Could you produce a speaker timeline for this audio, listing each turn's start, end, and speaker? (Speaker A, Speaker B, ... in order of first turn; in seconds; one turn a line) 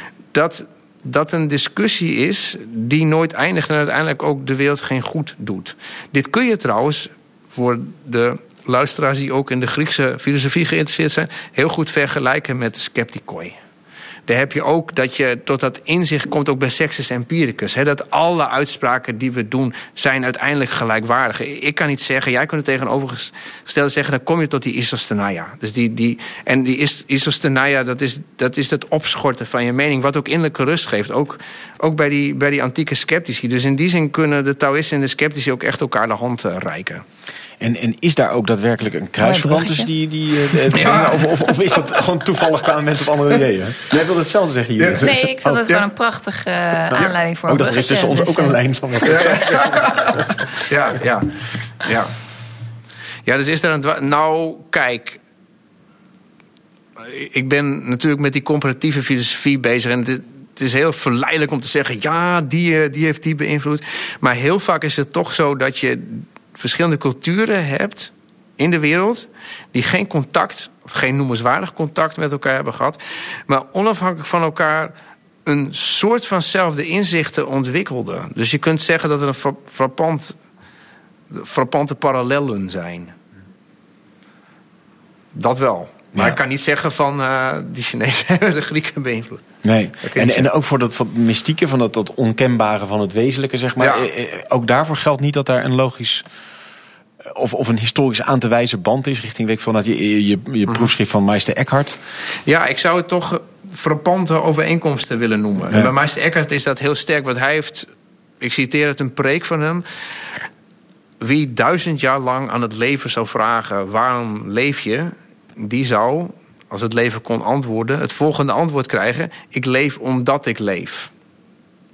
Speaker A: 0.3-13.6
Speaker A: 14.3-37.0
Speaker B: 37.6-45.6
Speaker C: 39.2-39.9
Speaker A: 40.7-41.3
Speaker A: 44.8-45.1
Speaker C: 45.0-48.6
Speaker B: 46.9-49.8
Speaker A: 49.0-52.1
Speaker C: 49.1-49.4
Speaker A: 53.2-55.2
Speaker A: 57.0-74.9
Speaker A: 75.5-80.3
Speaker A: 81.3-83.1
Speaker A: 85.3-89.4
Speaker B: 89.6-96.2
Speaker A: 90.0-90.5
Speaker A: 93.8-94.1
Speaker B: 97.2-102.0
Speaker A: 102.5-107.9
Speaker A: 108.4-109.8
Speaker A: 111.2-121.1